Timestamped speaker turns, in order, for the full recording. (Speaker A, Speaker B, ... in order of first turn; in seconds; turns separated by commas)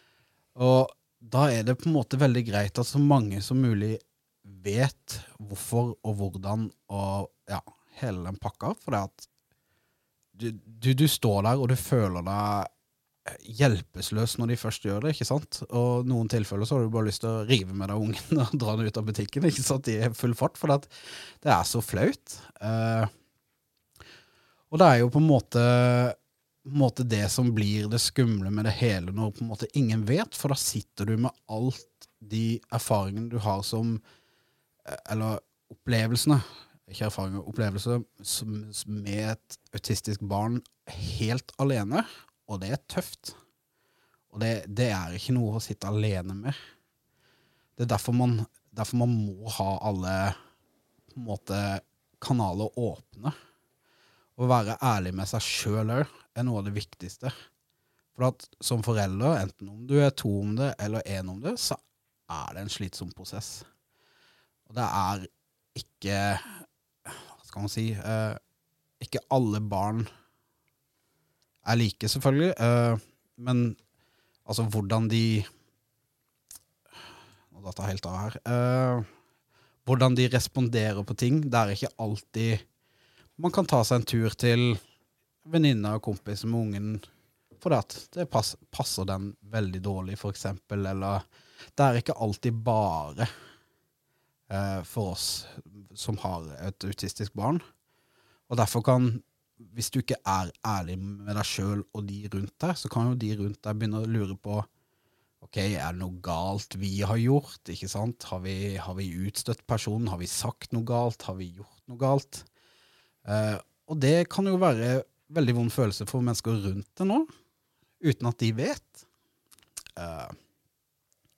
Speaker A: 0.6-9.3, Speaker A: 10.3-12.7, Speaker A: 13.3-20.9, Speaker A: 21.4-23.1, Speaker A: 24.7-34.0, Speaker A: 34.9-43.4, Speaker A: 44.3-46.6, Speaker A: 47.8-50.4, Speaker A: 51.1-53.3, Speaker A: 54.4-57.3, Speaker A: 58.1-63.6, Speaker A: 64.7-68.4, Speaker A: 69.0-70.1, Speaker A: 71.6-73.8, Speaker A: 74.5-75.5, Speaker A: 77.5-79.1, Speaker A: 79.8-82.6, Speaker A: 83.4-84.8, Speaker A: 85.4-87.0, Speaker A: 87.6-91.2, Speaker A: 91.8-93.3, Speaker A: 94.5-97.6, Speaker A: 98.5-104.7, Speaker A: 105.4-112.5, Speaker A: 113.2-117.3, Speaker A: 118.0-119.0, Speaker A: 120.0-120.3